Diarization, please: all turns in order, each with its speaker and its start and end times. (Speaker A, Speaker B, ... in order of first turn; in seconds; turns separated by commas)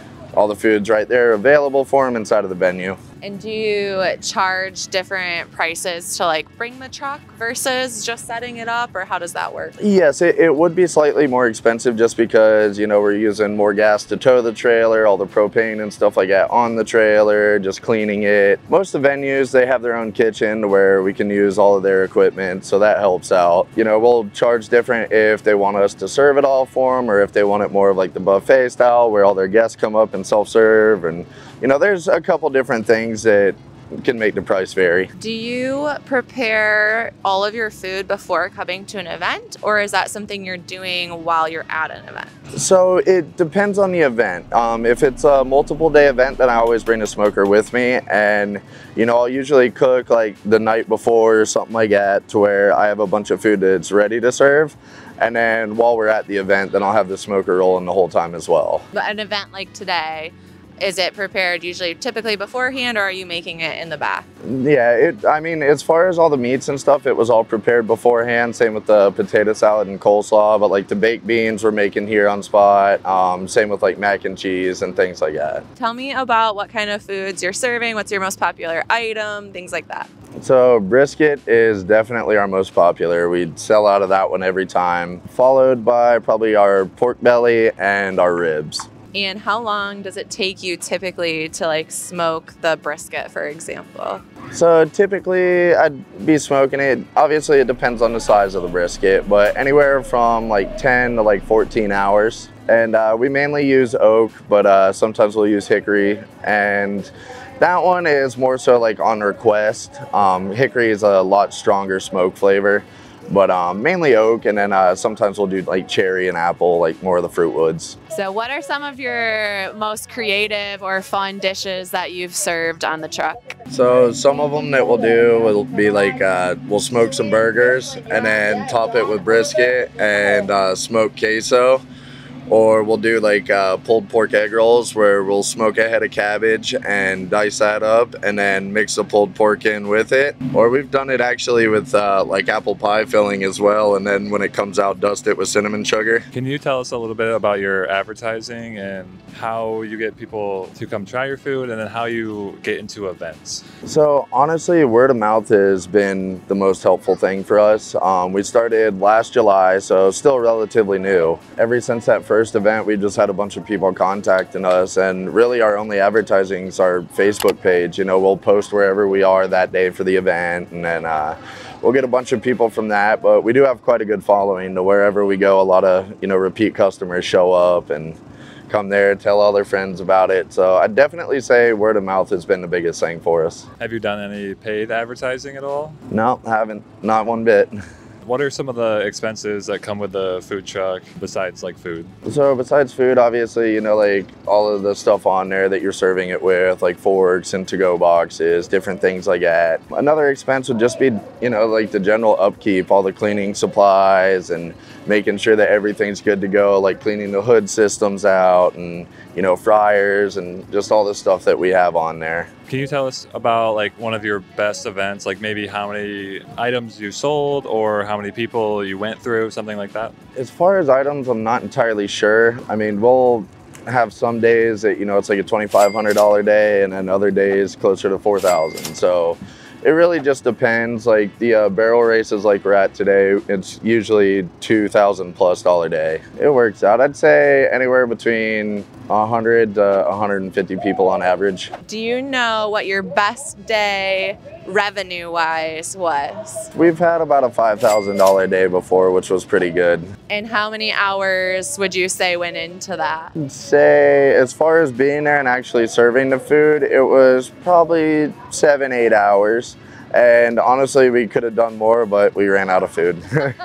Speaker A: 0.3-3.0, Speaker B: 3.2-9.8, Speaker A: 9.8-35.1, Speaker B: 35.2-42.3, Speaker A: 42.5-58.8, Speaker B: 58.9-64.2, Speaker A: 64.4-75.6, Speaker B: 75.8-80.1, Speaker A: 80.4-88.9, Speaker B: 89.1-94.2, Speaker A: 94.5-118.0, Speaker B: 118.1-123.5, Speaker A: 123.7-131.8, Speaker A: 132.5-146.2, Speaker C: 146.3-153.6, Speaker A: 153.8-183.7, Speaker C: 183.8-186.0, Speaker A: 186.1-187.7, Speaker C: 188.2-192.1, Speaker A: 192.2-212.5, Speaker C: 212.7-220.1, Speaker A: 220.3-241.7, Speaker B: 241.8-246.7, Speaker A: 246.7-250.1, Speaker B: 250.3-253.3, Speaker A: 253.3-263.5